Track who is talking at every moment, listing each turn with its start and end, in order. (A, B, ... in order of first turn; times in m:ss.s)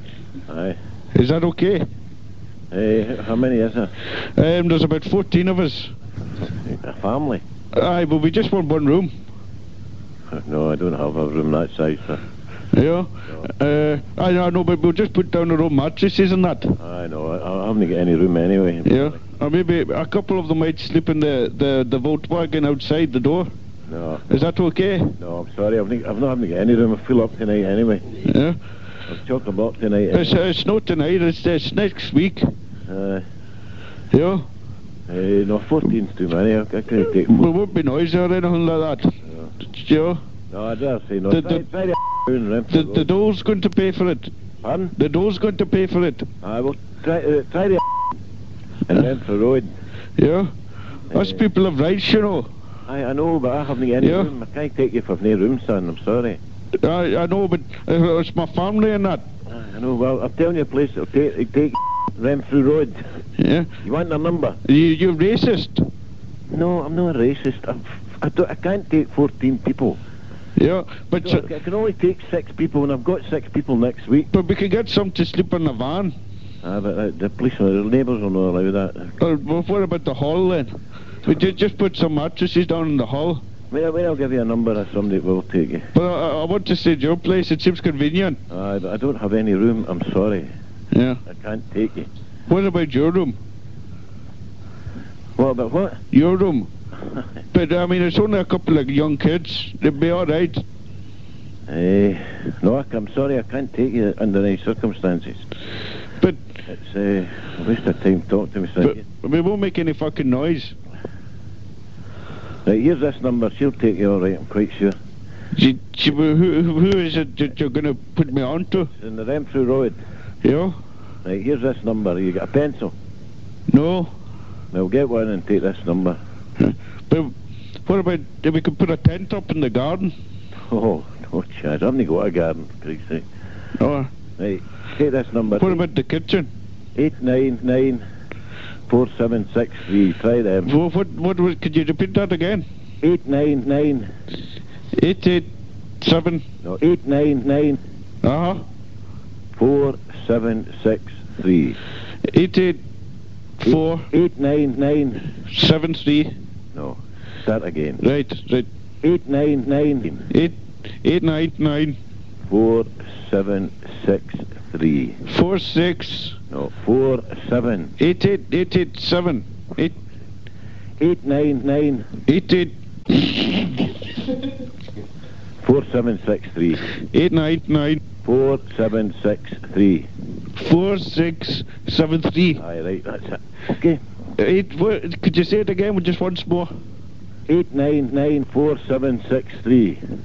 0:00.5-0:00.8 A
0:01.1-0:01.8 B
0:02.7-0:03.9 A
0:04.2-0:05.9 B
0:06.5-0:07.4 A
0:07.7-0:09.1 B
0:10.3-0:12.2 A
0:12.7-0:16.8 B
0:16.8-0:19.2 A
0:18.8-0:23.5 B
0:23.9-0:24.3 A
0:24.3-0:25.2 B
0:25.2-0:28.1 A
0:28.2-0:28.6 B
0:29.1-0:30.4 A
0:30.1-0:32.5 B
0:32.9-0:33.2 A
0:34.1-0:34.5 B
0:35.1-0:37.5 A
0:37.1-0:40.2 B
0:40.5-0:43.1 A
0:41.3-0:41.6 B
0:42.7-0:44.3 B
0:44.6-0:45.0 A
0:45.0-0:46.3 B
0:46.4-0:47.8 A
0:48.9-0:49.7 A
0:50.2-0:50.5 B
0:51.1-0:52.5 B
0:51.1-0:51.4 A
0:52.9-0:56.4 A
0:54.0-0:54.3 B
0:56.8-0:59.2 B
0:59.5-1:03.0 A
1:03.4-1:03.7 B
1:03.8-1:04.6 A
1:04.6-1:05.9 B
1:06.5-1:10.0 A
1:10.6-1:11.5 B
1:11.2-1:14.3 A
1:14.3-1:16.2 B
1:16.6-1:19.2 A
1:19.2-1:20.7 B
1:21.2-1:23.4 B
1:23.7-1:25.9 A
1:25.9-1:28.4 B
1:28.5-1:30.5 A
1:30.9-1:31.2 B
1:31.3-1:32.1 A
1:32.5-1:33.4 B
1:35.4-1:36.0 A
1:36.1-1:36.7 B
1:37.5-1:40.6 B
1:41.7-1:45.5 A
1:46.7-1:49.0 A
1:48.8-1:50.8 B
1:52.6-1:55.0 A
1:55.5-1:58.9 B
1:58.9-2:00.0 A
2:00.4-2:00.8 B
2:01.2-2:02.9 A
2:03.7-2:04.1 B
2:04.7-2:06.2 A
2:06.6-2:07.3 B
2:07.8-2:10.1 B
2:10.6-2:13.3 A
2:13.8-2:14.1 B
2:14.4-2:15.8 A
2:15.6-2:16.5 B
2:17.0-2:18.0 A
2:18.9-2:20.7 A
2:20.7-2:22.6 B
2:23.0-2:24.1 A
2:24.9-2:25.5 B
2:26.0-2:26.4 B
2:26.6-2:27.8 A
2:28.2-2:28.6 B
2:29.6-2:31.8 A
2:32.2-2:32.8 B
2:33.6-2:34.1 B
2:33.7-2:35.3 A
2:35.4-2:36.3 B
2:36.8-2:38.0 A
2:38.0-2:38.7 B
2:39.0-2:40.3 A
2:40.3-2:42.0 B
2:42.5-2:45.2 A
2:45.2-2:46.4 B
2:46.5-2:48.0 A
2:48.0-2:50.0 B
2:51.0-2:52.1 A
2:52.3-2:53.8 B
2:55.6-2:56.9 A
2:56.9-2:58.0 B
2:58.2-3:00.1 A
3:00.5-3:02.6 B
3:02.6-3:04.0 A
3:04.4-3:06.7 B
3:07.5-3:10.0 A